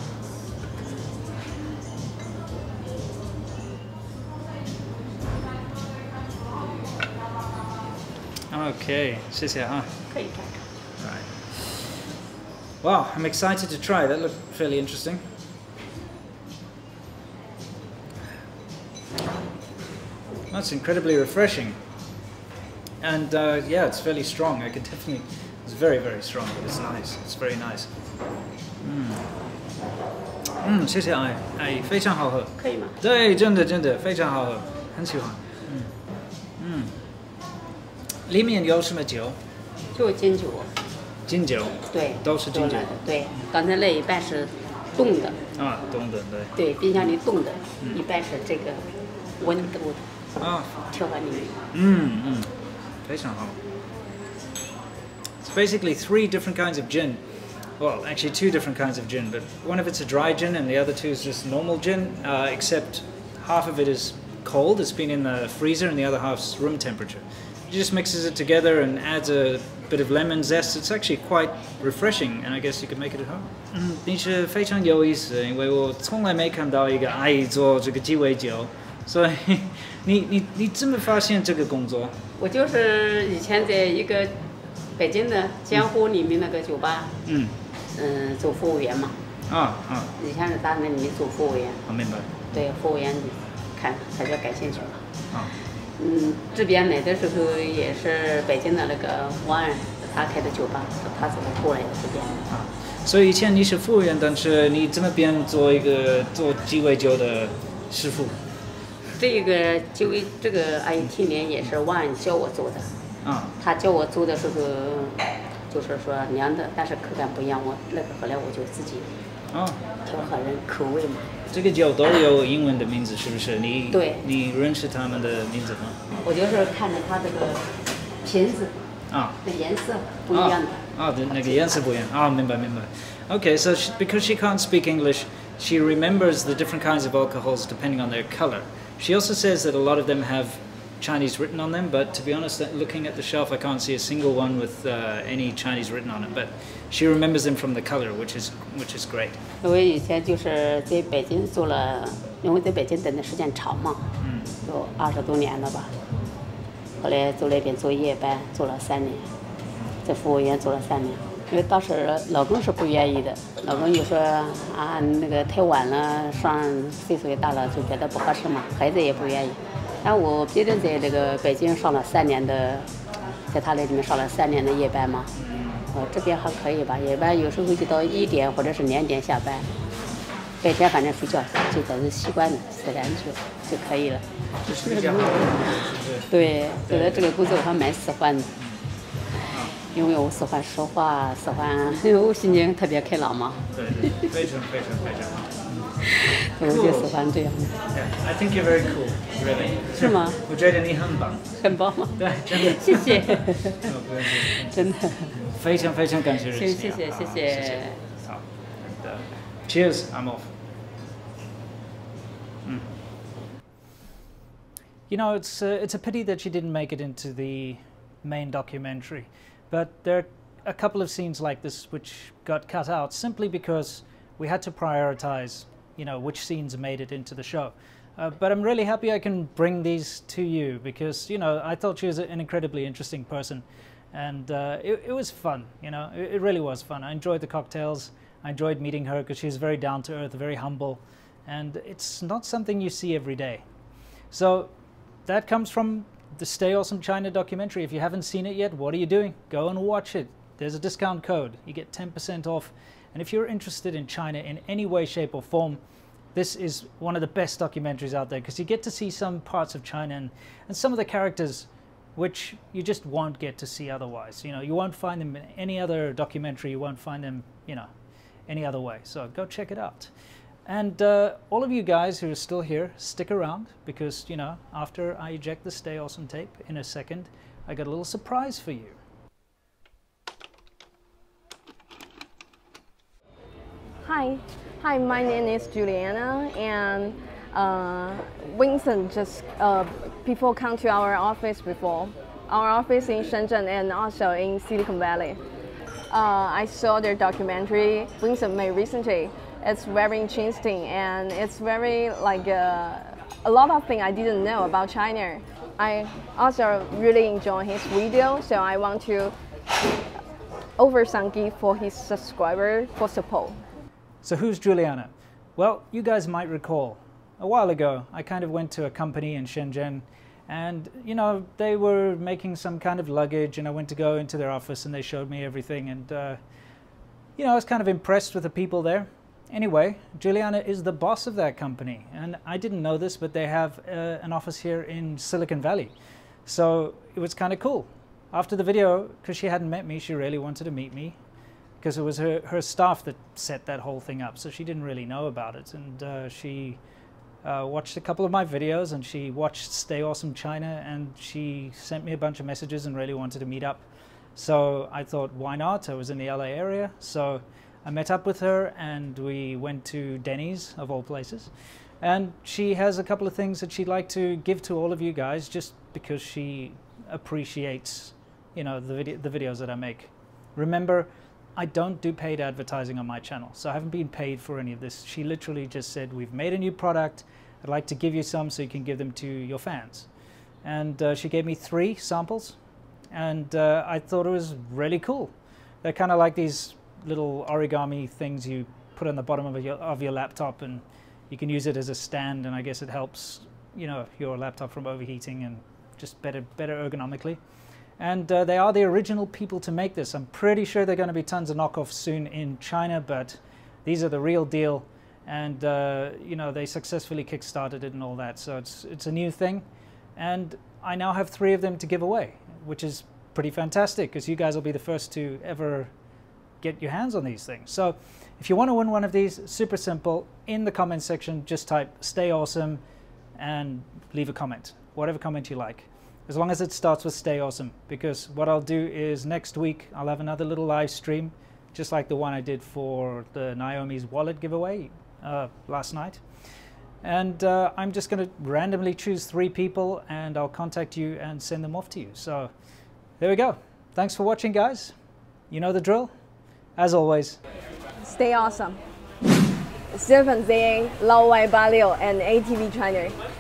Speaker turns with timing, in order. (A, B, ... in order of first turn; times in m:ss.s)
0:08.5-0:10.0 A
0:10.1-0:10.6 B
0:11.0-0:11.3 A
0:12.8-0:15.3 A
0:20.5-0:21.8 A
0:23.0-0:27.9 A
0:28.8-0:29.3 A
0:30.6-0:35.9 A
0:32.6-0:33.0 B
0:36.6-0:37.0 A
0:38.3-0:39.4 A
0:39.9-0:40.7 B
0:41.3-0:42.9 A
0:41.9-0:45.4 B
0:45.6-0:47.1 A
0:46.6-0:48.9 B
0:49.4-0:50.1 B
0:50.4-0:50.8 A
0:50.9-0:51.6 B
0:51.7-0:52.5 A
0:53.0-0:53.6 A
0:55.4-0:57.2 A
0:57.8-1:22.2 A
1:22.4-1:24.4 B
1:25.0-1:27.1 B
1:27.3-1:27.6 A
1:27.9-1:29.2 B
1:29.5-1:30.1 A
1:30.2-1:31.8 B
1:31.9-1:32.3 A
1:32.5-1:35.0 B
1:36.0-1:42.5 B
1:42.5-1:48.4 A
1:49.2-1:52.9 B
1:53.2-1:53.6 A
1:53.6-1:59.1 B
1:59.5-1:59.9 A
2:00.1-2:01.3 B
2:01.5-2:06.0 A
2:03.9-2:04.2 B
2:06.2-2:08.7 B
2:09.1-2:09.4 A
2:09.4-2:10.8 B
2:10.3-2:29.4 A
2:29.6-2:35.9 B
2:34.2-2:34.5 A
2:37.0-2:39.3 B
2:40.0-2:52.9 B
2:53.5-2:55.3 B
2:55.4-2:55.9 A
2:55.9-2:59.7 B
3:00.6-3:04.2 B
3:04.6-3:06.3 A
3:04.8-3:08.5 B
3:06.9-3:07.3 A
3:09.5-3:09.7 A
3:09.9-3:13.7 B
3:13.7-3:16.0 A
3:16.3-3:17.8 B
3:16.6-3:17.1 A
3:17.9-3:30.5 A
3:20.0-3:20.4 B
3:21.6-3:25.4 B
3:26.5-3:28.0 B
3:32.6-3:33.0 A
3:35.1-4:03.6 A
4:04.3-4:04.7 A
4:05.3-4:15.8 A
4:16.3-4:27.9 A
4:28.5-4:30.1 A
4:30.7-4:39.0 A
4:44.0-4:55.4 C
4:56.1-5:09.3 C
5:10.8-5:13.6 C
5:14.2-5:26.4 A
5:27.4-5:35.9 A
5:36.5-5:41.2 A
5:41.8-5:46.8 A
5:47.4-6:20.1 A
6:20.6-6:22.6 A
6:23.1-6:25.3 A
6:25.8-6:37.4 A
6:38.0-6:49.6 A
6:50.2-6:55.9 A
6:56.6-7:02.8 A
7:03.4-7:16.2 A
7:17.0-7:22.5 A
7:23.2-7:24.9 A
7:25.5-7:26.1 A
7:26.8-7:27.4 A
7:28.1-7:28.8 C
7:29.9-7:33.1 C